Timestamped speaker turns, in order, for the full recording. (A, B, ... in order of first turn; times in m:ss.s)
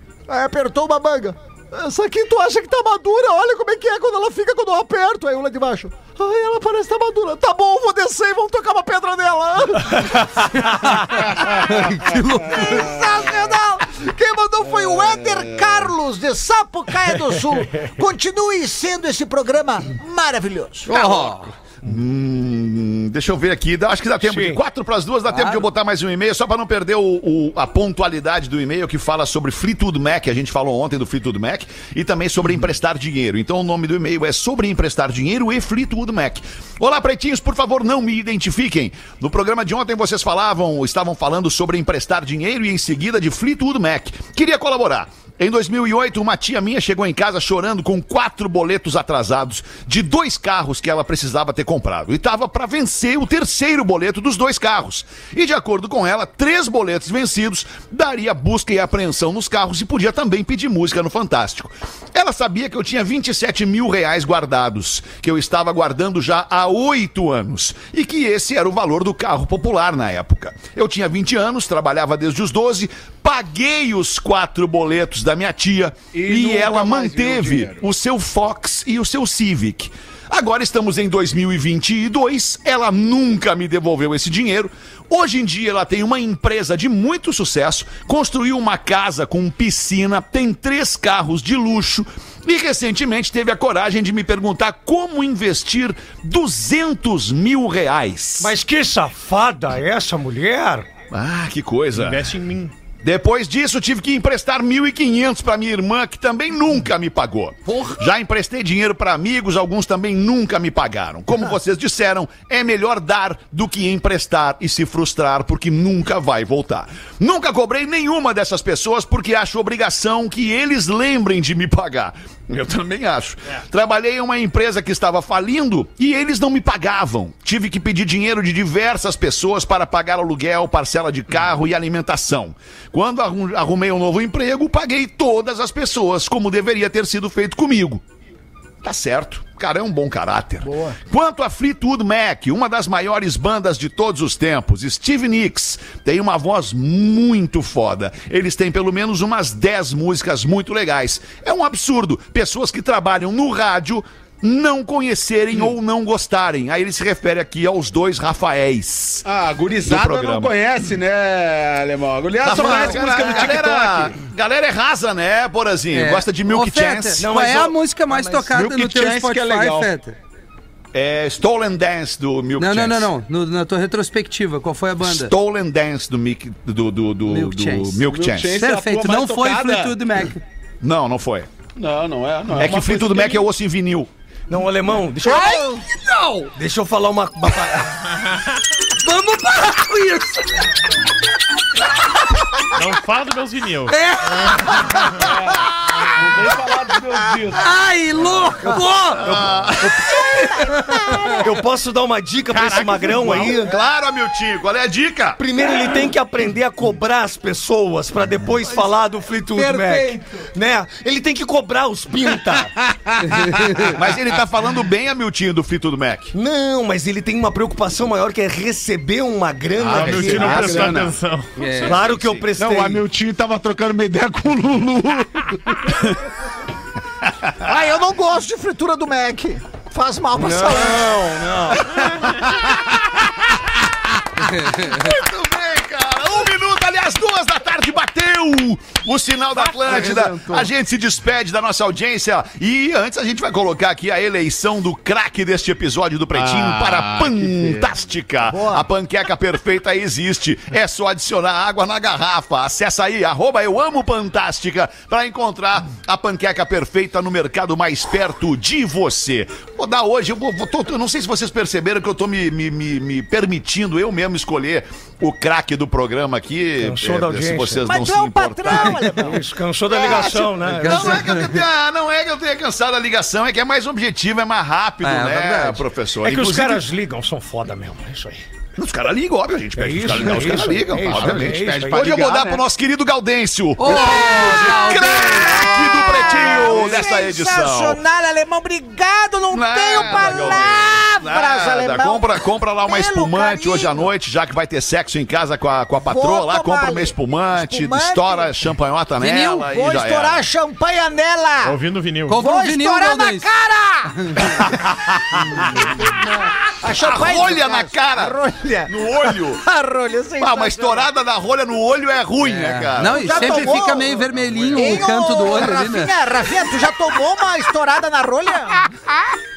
0:00.3-0:10.7 A
0:10.6-0:12.9 B
0:12.5-0:21.0 A
0:20.9-0:21.5 B
0:21.8-1:38.6 C
0:24.2-0:24.6 D
0:25.3-0:25.6 B
1:16.1-1:17.8 E
1:38.4-1:40.9 D
1:41.1-1:42.3 C
1:42.0-1:42.7 F
1:43.0-2:18.0 C
1:47.7-1:48.0 B
2:18.8-2:39.3 C
2:39.2-2:44.1 E
2:39.8-2:40.5 C
2:42.4-2:47.3 C
2:42.5-2:43.2 B
2:45.9-2:50.2 B
2:47.2-2:48.5 D
2:48.5-2:49.9 E
2:50.9-2:53.1 C
2:52.6-2:55.3 B
2:55.0-2:58.6 C
2:57.3-2:58.0 B
2:58.0-3:00.0 E
2:58.6-3:00.4 B
3:00.8-3:01.5 C
3:01.8-3:03.4 E
3:02.6-3:04.1 C
3:04.5-3:05.7 D
3:05.2-3:06.5 B
3:05.4-3:05.8 A
3:06.6-3:08.2 D
3:09.0-3:10.7 B
3:12.7-3:14.6 F
3:13.9-3:15.3 B
3:15.2-3:17.7 E
3:17.5-3:19.4 B
3:19.2-3:20.3 C
3:20.0-3:21.4 B
3:20.8-3:21.4 A
3:21.4-3:23.8 D
3:22.5-3:23.5 F
3:23.4-3:25.4 C
3:25.4-3:32.8 D
3:29.6-3:30.4 B
3:33.3-3:33.6 B
3:33.9-3:36.3 C
3:36.3-3:41.0 D
3:39.9-3:40.3 C
3:39.9-3:41.6 F
3:40.0-3:41.1 E
3:41.6-3:42.0 B
3:41.8-3:42.4 C
3:41.8-3:43.0 D
3:42.6-3:46.0 G
3:47.6-3:51.2 A
3:50.4-3:52.3 D
3:52.7-3:53.5 C
3:54.4-4:29.3 C
3:54.5-3:54.9 B
3:59.8-4:00.7 B
4:06.3-4:07.8 E
4:26.8-4:27.9 D
4:27.9-4:30.4 A
4:29.0-4:31.3 D
4:29.9-4:36.8 C
4:30.7-4:31.6 B
4:35.0-4:35.8 B
4:36.2-4:38.4 D
4:38.8-4:48.0 C
4:39.8-4:42.3 D
4:41.1-4:42.6 E
4:43.8-4:45.8 B
4:43.8-4:54.1 A
4:46.3-4:47.0 D
4:49.5-5:00.4 C
4:56.1-4:58.6 A
4:59.2-4:59.7 B
4:59.7-5:01.8 A
5:01.6-5:02.4 F
5:02.3-5:03.5 B
5:02.4-5:04.7 A
5:05.4-5:05.8 C
5:05.8-5:11.1 A
5:06.9-5:08.4 C
5:08.9-5:09.6 C
5:10.4-5:15.0 C
5:12.4-5:16.1 B
5:13.1-5:14.2 A
5:14.8-5:18.9 A